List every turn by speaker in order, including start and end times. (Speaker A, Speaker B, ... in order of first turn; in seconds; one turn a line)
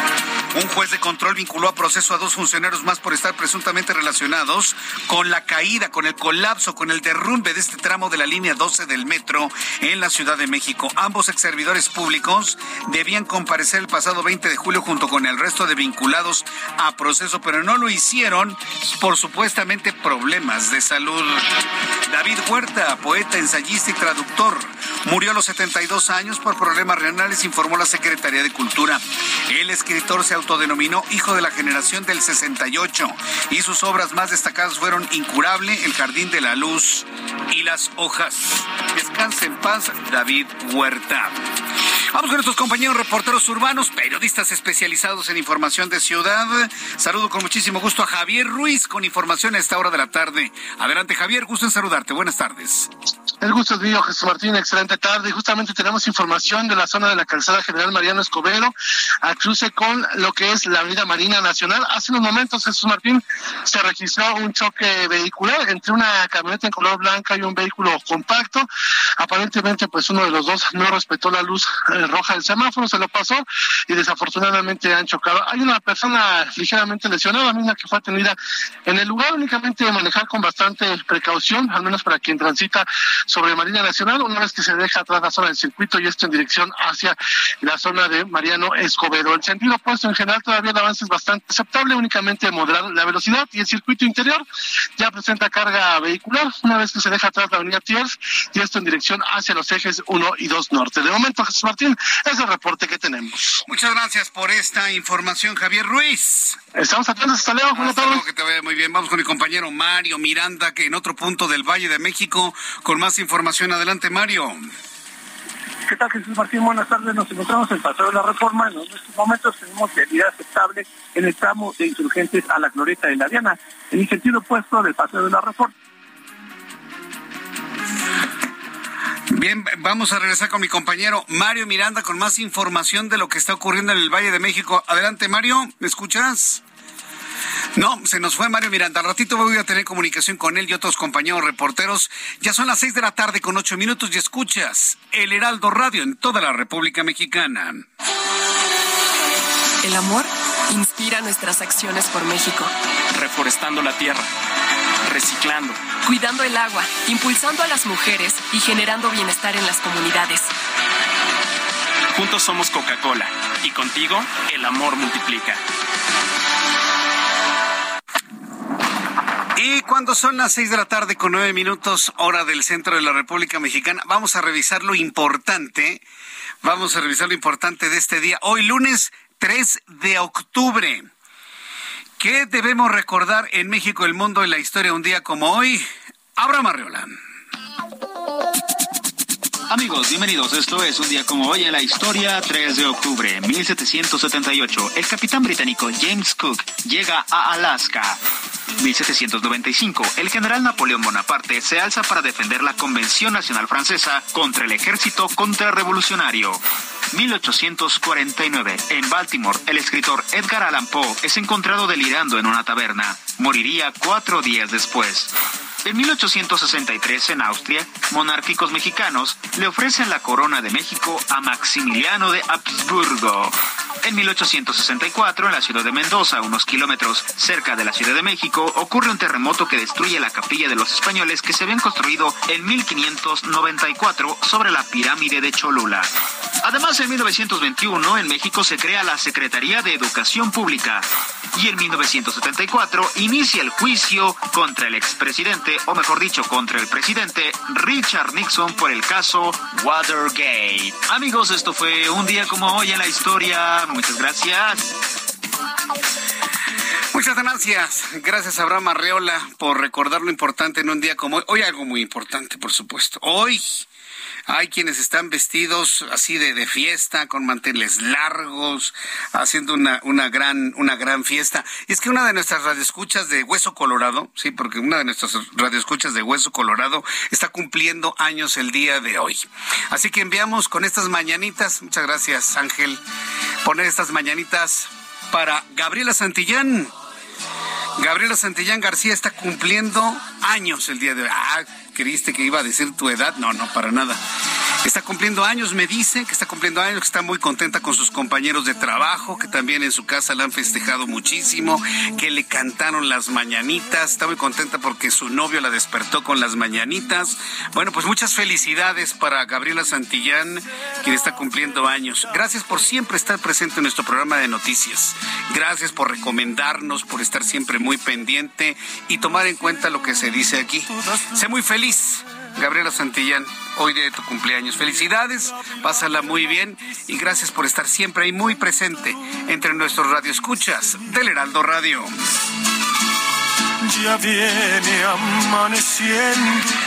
Speaker A: 0.5-41.5
Speaker A: 42.1-52.9
Speaker B: 53.4-68.7
Speaker B: 69.2-94.5
Speaker B: 95.0-103.5
Speaker A: 103.7-106.6
Speaker B: 106.8-108.2
Speaker A: 107.8-114.7
Speaker C: 115.9-125.7
Speaker A: 129.3-136.6
Speaker A: 137.8-147.9
Speaker D: 149.8-152.7
Speaker E: 153.1-154.3
Speaker E: 155.1-155.9
Speaker D: 156.0-160.5
Speaker E: 162.2-165.6
Speaker A: 169.6-176.0
Speaker A: 176.6-181.1
Speaker A: 182.2-185.8
Speaker A: 186.4-187.1
Speaker F: 189.7-198.2
Speaker F: 198.8-236.1
Speaker F: 236.6-254.9
Speaker A: 257.1-263.9
Speaker A: 264.5-283.0
Speaker A: 283.6-286.9
Speaker A: 288.0-294.2
Speaker A: 294.8-332.1
Speaker C: 334.1-336.3